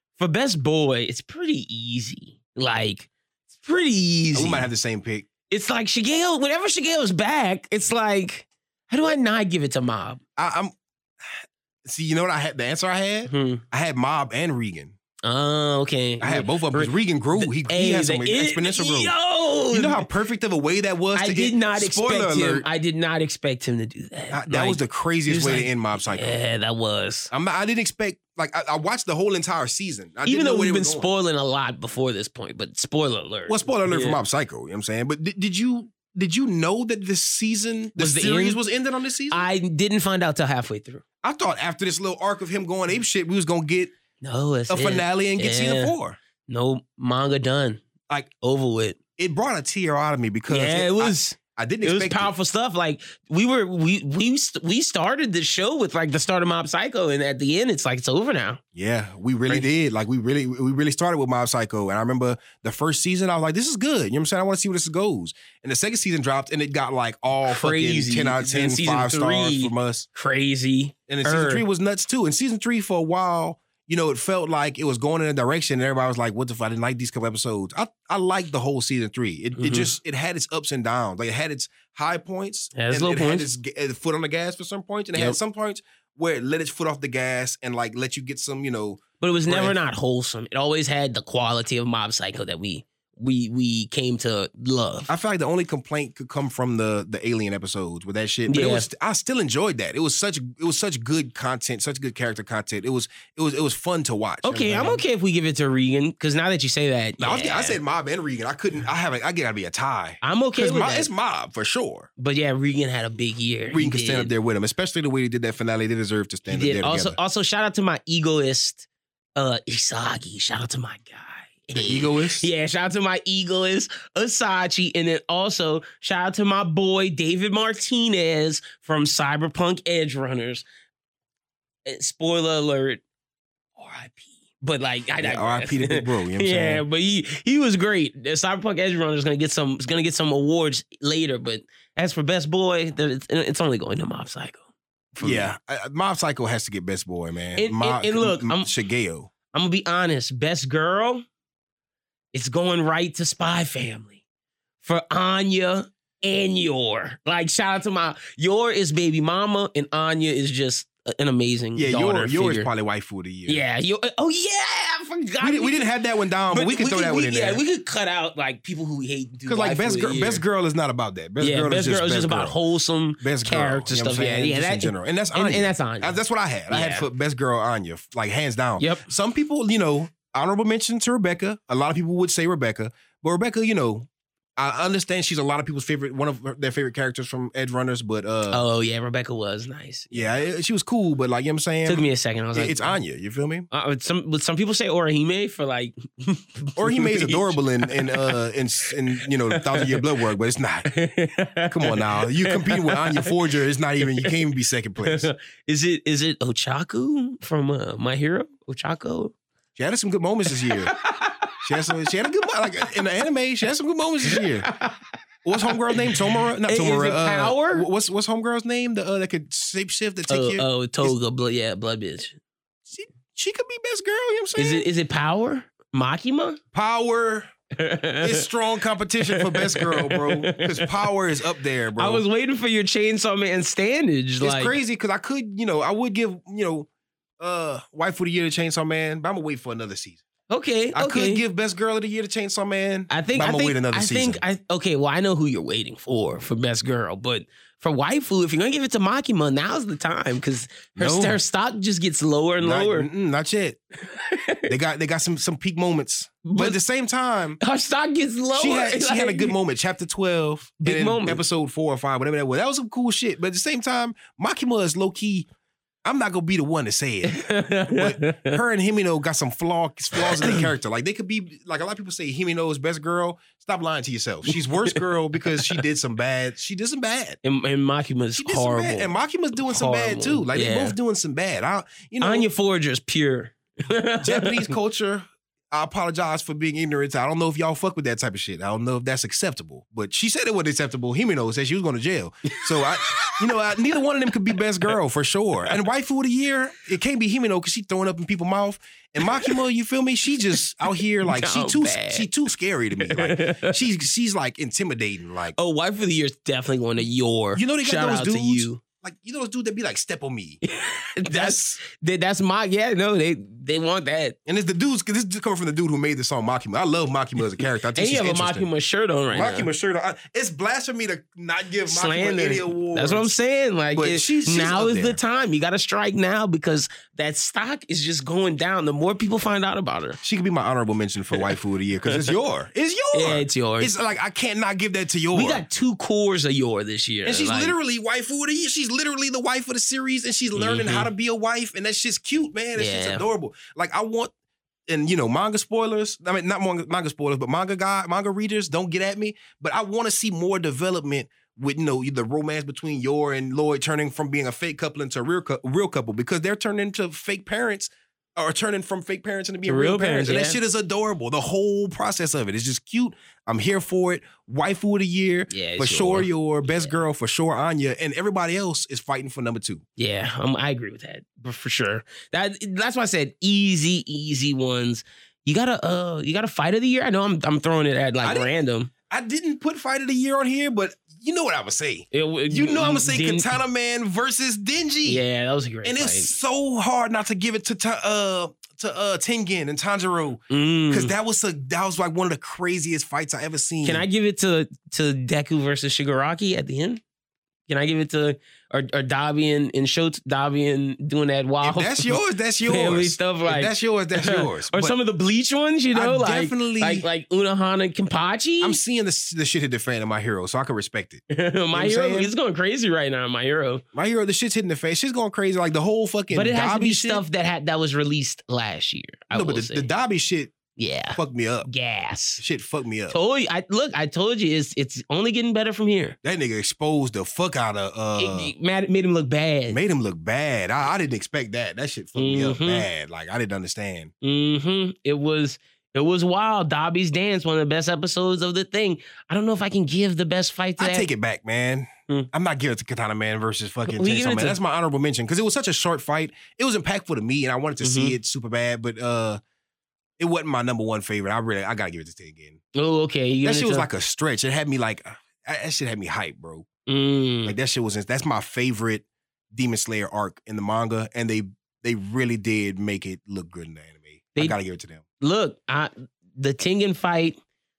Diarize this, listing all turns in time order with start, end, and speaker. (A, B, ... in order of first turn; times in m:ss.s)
0:00.2-0:04.7 A
0:04.3-0:05.3 B
0:05.5-0:10.2 A
0:10.4-0:14.9 B
0:13.3-0:13.6 A
0:15.2-0:20.1 A
0:16.2-0:19.1 B
0:19.7-0:22.6 B
0:21.1-0:27.3 A
0:24.3-0:26.4 B
0:27.3-0:31.1 B
0:30.3-0:34.2 A
0:33.5-0:39.4 B
0:38.0-0:38.6 A
0:39.3-0:41.0 A
0:41.2-0:43.9 B
0:44.2-0:47.8 A
0:44.7-0:46.2 B
0:48.4-0:49.0 A
0:49.2-0:52.3 B
0:50.5-0:58.6 A
0:58.8-1:10.1 B
1:07.4-1:11.6 A
1:11.1-1:29.8 B
1:19.6-1:19.9 A
1:22.8-1:23.5 A
1:29.2-1:35.1 A
1:35.1-1:45.0 B
1:38.5-1:38.9 A
1:44.4-1:47.8 A
1:47.2-1:52.1 B
1:50.2-1:51.1 A
1:52.2-1:54.3 A
1:53.7-1:57.2 B
1:56.5-2:10.6 A
2:01.7-2:02.5 B
2:11.9-2:13.0 A
2:13.8-2:24.6 A
2:15.2-2:16.8 B
2:25.1-2:25.5 A
2:25.2-2:29.3 B
2:27.6-2:28.7 A
2:29.5-2:31.2 A
2:32.3-2:34.2 A
2:34.8-2:42.7 A
2:41.8-2:43.6 B
2:43.5-2:45.9 A
2:45.4-2:47.6 B
2:46.5-2:50.4 A
2:49.5-2:52.6 B
2:51.4-2:56.2 A
2:53.2-3:08.6 B
2:56.7-2:57.1 A
2:58.8-2:59.1 A
3:08.5-3:10.3 A
3:10.1-3:13.7 B
3:11.9-3:13.0 A
3:13.7-3:18.4 A
3:16.8-3:20.9 B
3:19.2-3:20.0 A
3:20.9-3:23.4 A
3:21.7-3:25.3 B
3:24.0-3:24.4 A
3:25.0-3:29.3 A
3:29.8-3:30.9 B
3:30.5-3:31.9 A
3:31.6-3:34.7 B
3:34.3-3:35.0 A
3:35.4-3:41.1 B
3:35.6-3:37.9 A
3:40.3-3:42.4 A
3:42.9-3:44.9 B
3:44.6-3:46.6 A
3:46.7-3:47.5 B
3:47.8-3:48.5 A
3:48.2-3:52.2 B
3:49.3-3:51.0 A
3:52.0-3:54.8 A
3:54.4-3:56.9 B
3:57.4-4:00.2 B
4:00.5-4:01.4 A
4:00.9-4:04.4 B
4:03.1-4:13.1 A
4:11.0-4:11.4 B
4:12.6-4:13.8 B
4:14.1-4:14.7 A
4:14.7-4:17.6 B
4:16.4-4:16.8 A
4:17.6-4:19.6 A
4:18.6-4:25.5 B
4:20.8-4:21.4 A
4:26.0-4:37.4 B
4:27.2-4:28.6 A
4:30.2-4:30.7 A
4:34.5-4:35.0 A
4:35.6-4:35.8 A
4:37.4-4:41.0 A
4:38.4-4:42.5 B
4:42.2-4:44.7 A
4:44.2-5:05.6 B
4:52.5-4:53.4 A
5:01.2-5:02.3 A
5:03.0-5:03.8 A
5:05.6-5:08.8 A
5:07.6-5:10.6 B
5:10.6-5:14.4 A
5:11.3-5:11.8 B
5:14.5-5:18.7 B
5:17.6-5:19.7 A
5:19.3-5:23.3 B
5:21.9-5:30.2 A
5:23.9-5:25.2 B
5:30.2-5:35.6 B
5:33.1-5:33.9 A
5:35.3-5:37.8 A
5:37.2-5:44.3 B
5:40.6-5:41.1 A
5:42.8-5:43.2 A
5:44.9-6:09.8 B
5:59.6-6:00.6 A
6:05.5-6:06.9 A
6:10.0-6:18.9 A
6:18.2-6:18.5 B
6:19.1-6:25.2 B
6:22.1-6:23.5 A
6:25.0-6:26.3 A
6:25.8-6:34.0 B
6:30.5-6:31.1 A
6:33.8-6:37.0 A
6:37.7-6:48.8 A
6:41.6-6:45.0 B
6:45.9-6:47.1 B
6:48.6-6:52.3 B
6:51.3-6:53.8 A
6:53.9-6:57.2 B
6:56.3-6:59.9 A
6:59.3-7:00.6 B
7:00.8-7:02.4 A
7:01.1-7:01.7 B
7:02.4-7:03.2 B
7:03.1-7:06.2 A
7:06.2-7:08.5 B
7:08.2-7:09.8 A
7:09.7-7:14.1 B
7:12.2-7:12.9 A
7:14.2-7:21.1 A
7:20.8-7:29.4 B
7:23.9-7:24.6 A
7:27.8-7:28.2 A
7:30.2-7:32.6 B
7:32.8-7:33.9 A
7:33.4-7:36.7 B
7:36.9-7:37.6 A
7:37.4-7:45.0 B
7:45.2-7:47.4 A